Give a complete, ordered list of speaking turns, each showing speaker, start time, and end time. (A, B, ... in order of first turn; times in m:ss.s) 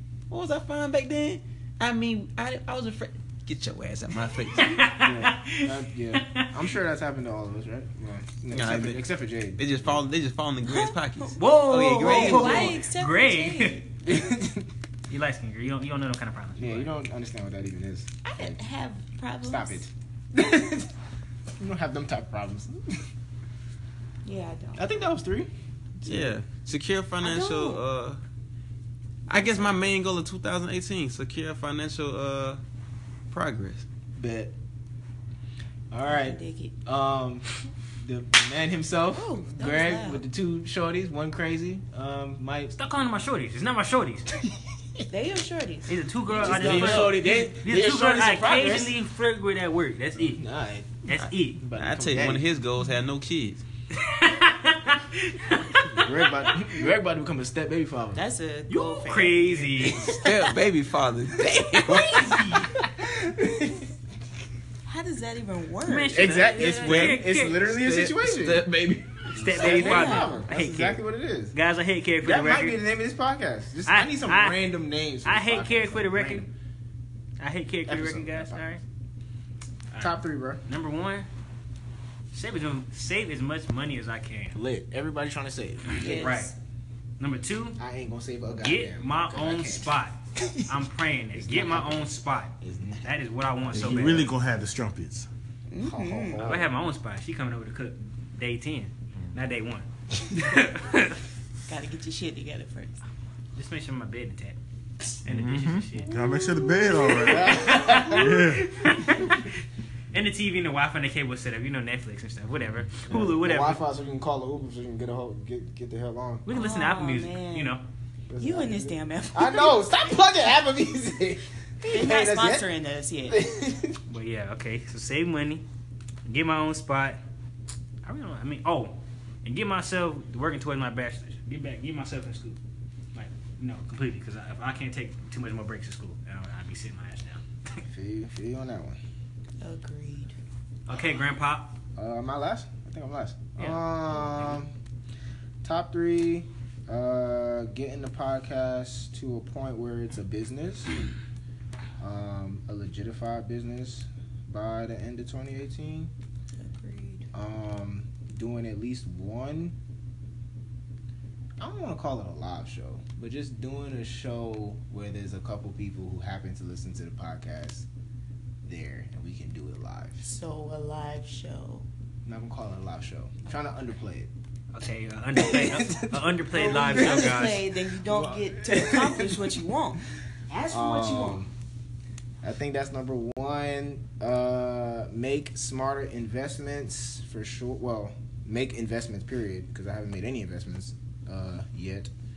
0:00.3-0:04.8 A
0:04.6-0:06.5 B
0:05.0-0:10.0 C
0:08.5-0:09.0 A
0:09.6-0:12.8 A
0:10.6-0:13.9 D
0:11.4-0:13.8 B
0:12.1-0:12.7 C
0:14.0-0:14.7 C
0:15.1-0:16.9 B
0:16.6-0:18.6 C
0:18.2-0:19.8 D
0:19.4-0:20.9 C
0:21.6-0:23.1 C
0:24.2-0:25.0 D
0:24.8-0:26.3 C
0:26.0-0:28.2 A
0:27.2-0:27.8 D
0:29.3-0:32.6 A
0:29.3-0:29.7 D
0:33.3-0:33.8 A
0:34.2-0:34.5 C
0:35.9-0:37.5 C
0:36.0-0:36.7 D
0:38.0-0:42.7 C
0:39.1-0:40.2 D
0:42.7-0:44.3 B
0:45.1-0:47.3 D
0:45.9-0:50.4 B
0:46.3-0:48.9 C
0:46.9-0:47.9 A
0:50.1-0:51.0 C
0:51.0-0:51.6 B
0:51.2-0:53.6 A
0:51.6-0:52.5 C
0:53.9-0:56.6 B
0:55.8-0:58.2 C
0:58.1-1:00.0 D
0:58.7-1:00.1 B
0:59.8-1:00.3 C
1:00.1-1:02.4 A
1:01.8-1:02.2 C
1:01.9-1:02.7 B
1:02.7-1:03.9 C
1:04.8-1:06.7 D
1:05.8-1:07.6 B
1:06.1-1:08.6 C
1:06.6-1:09.8 A
1:09.3-1:12.8 B
1:09.3-1:11.5 C
1:09.6-1:10.4 D
1:12.2-1:16.5 C
1:13.9-1:14.6 B
1:15.2-1:16.5 B
1:17.4-1:18.8 B
1:17.9-1:18.8 C
1:19.9-1:21.3 B
1:20.0-1:20.6 C
1:22.3-1:24.6 B
1:24.5-1:26.3 C
1:25.9-1:26.5 D
1:26.0-1:26.5 B
1:27.2-1:27.8 B
1:27.8-1:30.6 C
1:28.6-1:34.3 B
1:31.3-1:33.1 C
1:33.7-1:35.3 E
1:35.7-1:36.5 D
1:35.8-1:36.7 C
1:36.4-1:41.2 B
1:41.7-1:43.0 D
1:43.5-1:44.6 B
1:45.2-1:46.1 B
1:45.2-1:48.9 E
1:46.2-1:47.1 D
1:47.1-1:48.5 C
1:47.3-1:49.5 B
1:50.1-1:53.8 B
1:53.0-1:56.4 C
1:56.4-1:57.8 B
1:56.5-1:57.8 D
1:58.3-2:02.7 C
1:58.4-1:59.8 D
2:01.8-2:03.4 D
2:03.3-2:04.0 C
2:04.1-2:05.6 B
2:06.2-2:07.2 B
2:08.0-2:12.6 B
2:13.1-2:17.8 B
2:17.8-2:19.0 C
2:19.6-2:20.3 D
2:20.9-2:21.8 B
2:21.9-2:24.7 C
2:23.6-2:24.4 B
2:25.6-2:31.0 C
2:32.0-2:36.1 C
2:36.6-2:37.3 D
2:37.3-2:39.8 C
2:41.6-2:47.8 C
2:48.6-2:50.3 C
2:50.2-2:51.9 D
2:52.2-2:54.3 C
2:54.7-2:57.7 B
2:55.3-2:56.2 C
2:56.5-3:01.4 D
2:56.8-2:57.4 C
2:58.0-2:59.6 C
3:00.7-3:01.5 C
3:02.4-3:12.1 C